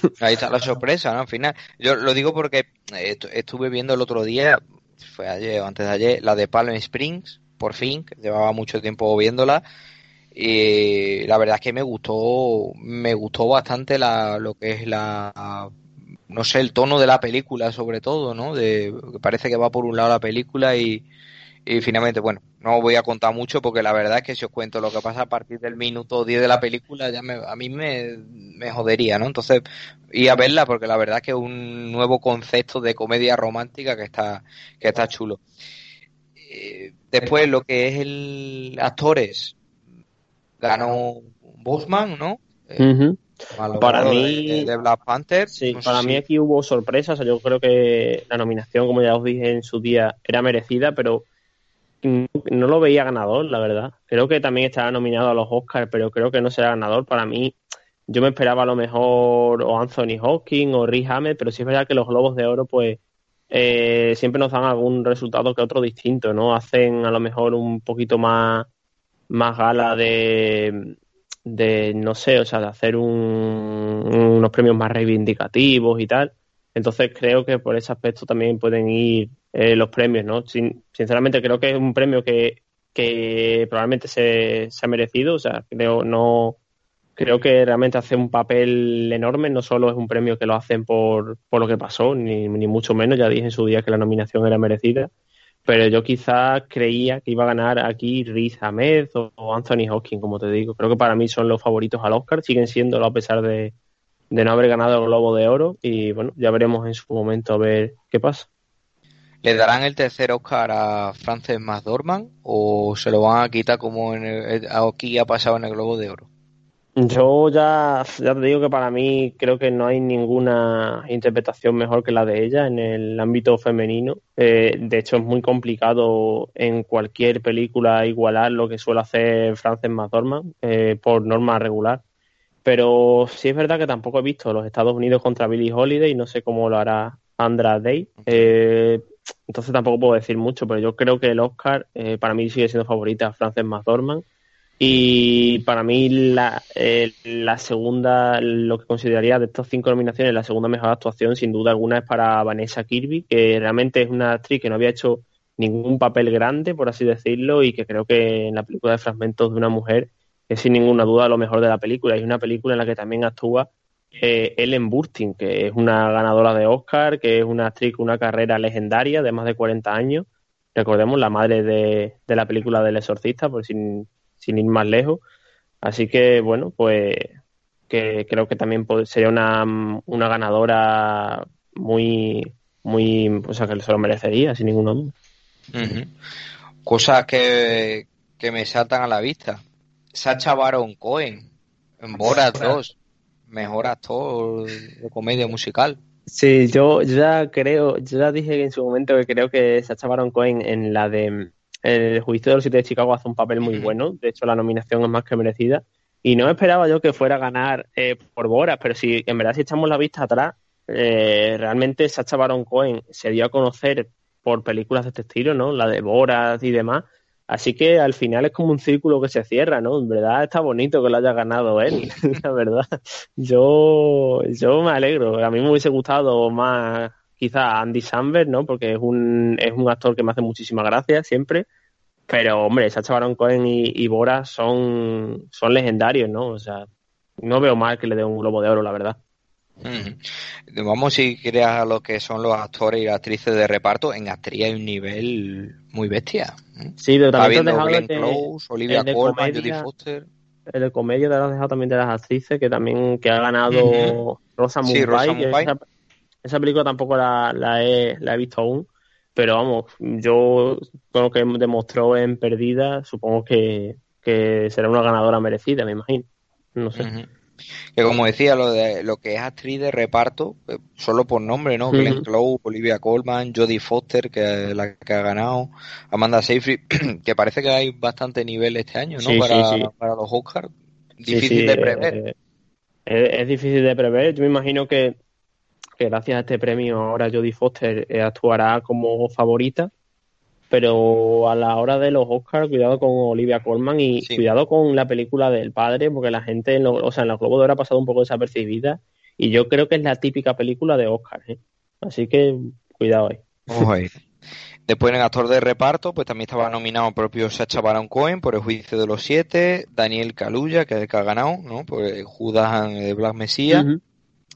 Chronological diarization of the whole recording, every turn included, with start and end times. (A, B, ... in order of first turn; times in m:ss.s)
0:00.2-0:09.6 A
0:10.3-0:15.7 A
0:16.3-0:21.0 A
0:21.7-0:35.4 A
0:36.4-0:39.6 A
0:40.6-0:42.9 A
0:42.8-0:43.2 B
0:43.5-0:46.2 A
0:43.8-0:44.7 B
0:45.5-0:51.3 B
0:52.0-0:57.6 B
0:58.1-1:03.0 B
1:03.5-1:08.7 B
1:09.3-1:10.9 B
1:11.5-1:26.6 B
1:27.2-1:35.1 B
1:35.6-1:43.7 B
1:44.3-1:48.5 B
1:49.4-1:56.3 A
1:57.0-2:12.0 B
2:12.6-2:24.2 B
2:18.2-2:18.6 A
2:24.8-2:55.2 B
2:55.8-2:57.3 B
2:57.9-3:05.1 B
3:05.7-3:06.1 A
3:06.8-3:09.6 A
3:10.1-3:11.5 A
3:12.0-3:12.9 A
3:12.4-3:12.8 B
3:13.5-3:16.0 A
3:16.3-3:51.7 B
3:23.6-3:23.9 A
3:52.3-3:56.9 B
3:57.4-3:59.2 B
3:59.8-4:10.3 A
4:07.0-4:09.9 B
4:10.7-4:15.8 B
4:13.7-4:14.2 A
4:14.8-4:15.7 A
4:16.4-4:26.3 B
4:26.8-4:27.1 B
4:27.0-4:27.3 A
4:28.0-4:42.2 A
4:31.9-4:32.3 B
4:39.2-4:39.9 B
4:41.3-4:42.3 B
4:43.1-4:45.2 B
4:46.0-4:49.9 B
4:50.7-5:03.8 B
5:03.7-5:04.1 A
5:04.9-5:13.9 A
5:13.7-5:14.0 B